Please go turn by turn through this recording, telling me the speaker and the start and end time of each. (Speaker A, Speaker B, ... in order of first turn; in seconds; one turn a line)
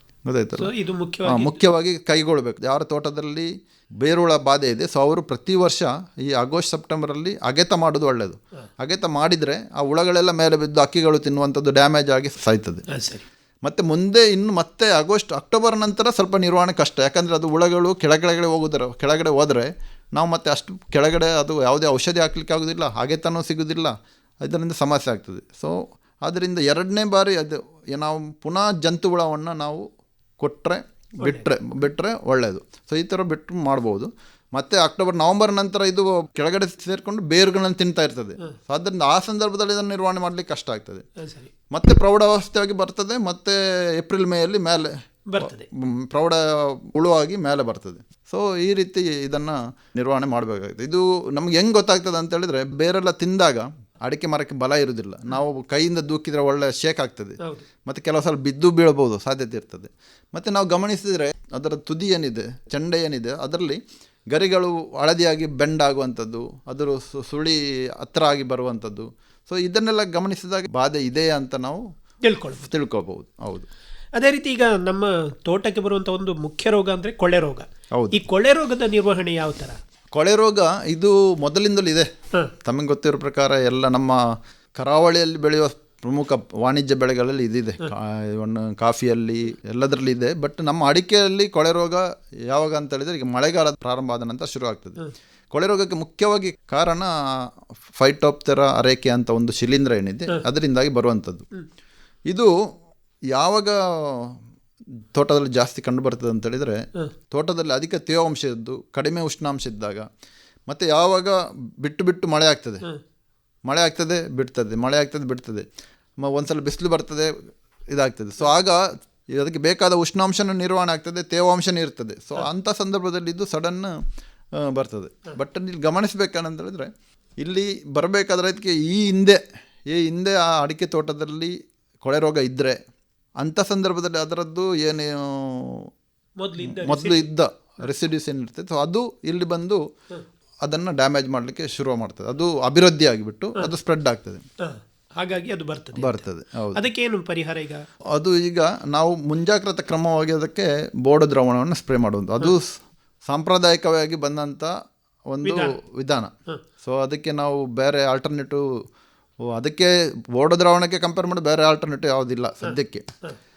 Speaker A: 0.2-0.7
Speaker B: 0.6-1.6
Speaker A: 1.3-12.9
Speaker B: 12.9-13.2
Speaker A: 13.6-29.9
Speaker A: 30.4-41.0
Speaker B: 41.2-41.5
Speaker A: 41.7-63.8
Speaker B: 45.3-45.6
Speaker A: 64.3-71.8
Speaker B: 72.2-72.7
Speaker A: 72.6-73.7
Speaker B: 74.2-79.8
Speaker A: 77.9-78.2
Speaker A: 80.1-82.1
Speaker A: 82.6-101.5
Speaker A: 103.3-104.4
Speaker A: 105.2-110.1
Speaker A: 110.7-112.9
Speaker A: 113.7-115.7
Speaker A: 116.2-117.3
Speaker A: 117.9-123.9
Speaker A: 124.5-132.8
Speaker A: 133.4-135.9
Speaker B: 136.4-137.3
Speaker A: 136.6-139.8
Speaker A: 140.6-144.4
Speaker B: 144.6-146.2
Speaker A: 145.9-146.8
Speaker B: 146.8-147.8
Speaker A: 148.1-154.7
Speaker A: 155.3-158.6
Speaker B: 155.4-155.8
Speaker A: 159.5-163.1